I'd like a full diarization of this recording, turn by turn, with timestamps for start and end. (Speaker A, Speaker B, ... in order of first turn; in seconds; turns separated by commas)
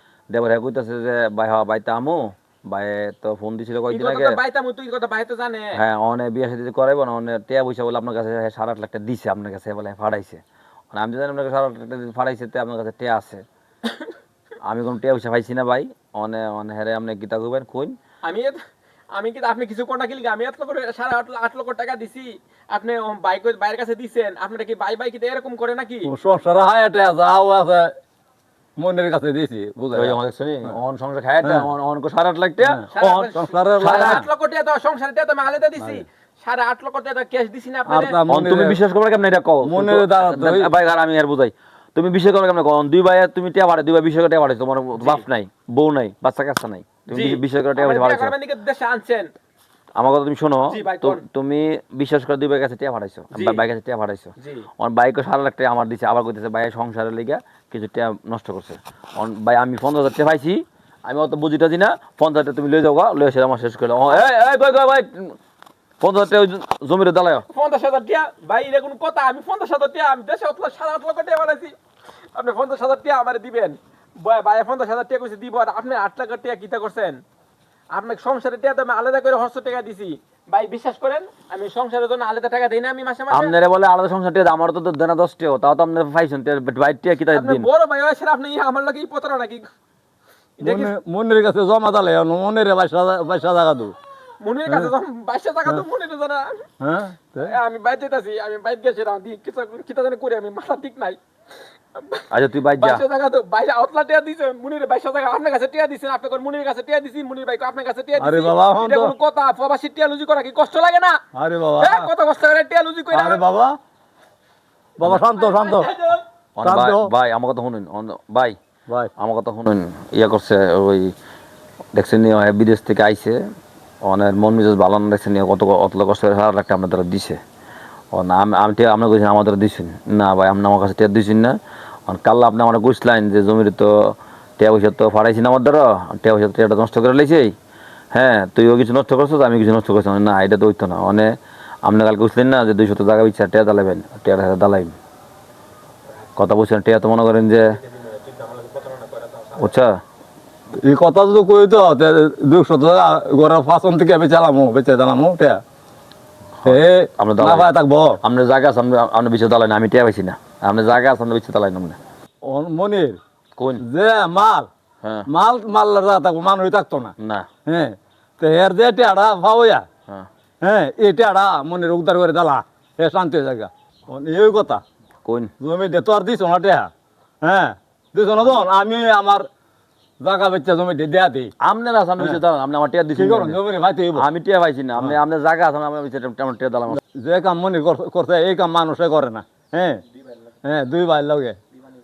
Speaker A: 0.3-4.4, Speaker B: 3.9-5.8, Speaker A: 5.7-13.4, Speaker A: 14.6-17.9, Speaker B: 18.2-18.6, Speaker B: 19.1-26.1, Speaker C: 26.0-27.9, Speaker C: 28.8-30.7, Speaker A: 29.9-34.3, Speaker C: 32.6-34.2, Speaker B: 32.9-38.2, Speaker C: 37.9-38.8, Speaker A: 38.3-48.3, Speaker C: 39.6-40.7, Speaker B: 45.0-45.2, Speaker B: 47.1-49.3, Speaker A: 50.0-65.3, Speaker B: 50.7-51.2, Speaker B: 53.3-53.6, Speaker B: 54.4-54.7, Speaker A: 66.0-67.5, Speaker B: 67.5-71.7, Speaker B: 72.3-77.2, Speaker B: 77.9-83.5, Speaker A: 83.3-87.7, Speaker B: 87.3-89.7, Speaker B: 90.6-90.9, Speaker C: 90.6-93.9, Speaker B: 94.4-96.6, Speaker C: 96.8-97.5, Speaker B: 97.4-101.2, Speaker B: 101.9-111.2, Speaker A: 102.3-103.0, Speaker C: 108.2-109.1, Speaker C: 111.3-112.1, Speaker B: 111.8-113.4, Speaker C: 113.1-113.8, Speaker C: 115.0-115.9, Speaker B: 115.3-116.2, Speaker A: 116.5-118.5, Speaker C: 116.6-117.1, Speaker A: 119.2-121.1, Speaker A: 121.9-123.4, Speaker A: 124.0-127.4, Speaker A: 128.1-131.6, Speaker A: 132.1-137.5, Speaker A: 138.1-141.3, Speaker A: 141.8-144.9, Speaker A: 146.4-147.8, Speaker B: 147.8-149.7, Speaker A: 149.6-150.0, Speaker C: 150.8-155.6, Speaker A: 156.6-162.0, Speaker C: 156.6-158.2, Speaker C: 162.4-163.2, Speaker A: 163.6-163.8, Speaker C: 163.8-164.7, Speaker C: 165.3-167.1, Speaker A: 167.2-167.5, Speaker C: 167.7-169.8, Speaker C: 170.6-174.8, Speaker A: 175.2-175.5, Speaker C: 175.6-176.9, Speaker C: 177.4-179.5, Speaker C: 180.2-181.5, Speaker A: 181.6-183.6, Speaker C: 183.1-184.2, Speaker A: 184.1-187.0, Speaker C: 186.9-190.0, Speaker C: 190.6-191.6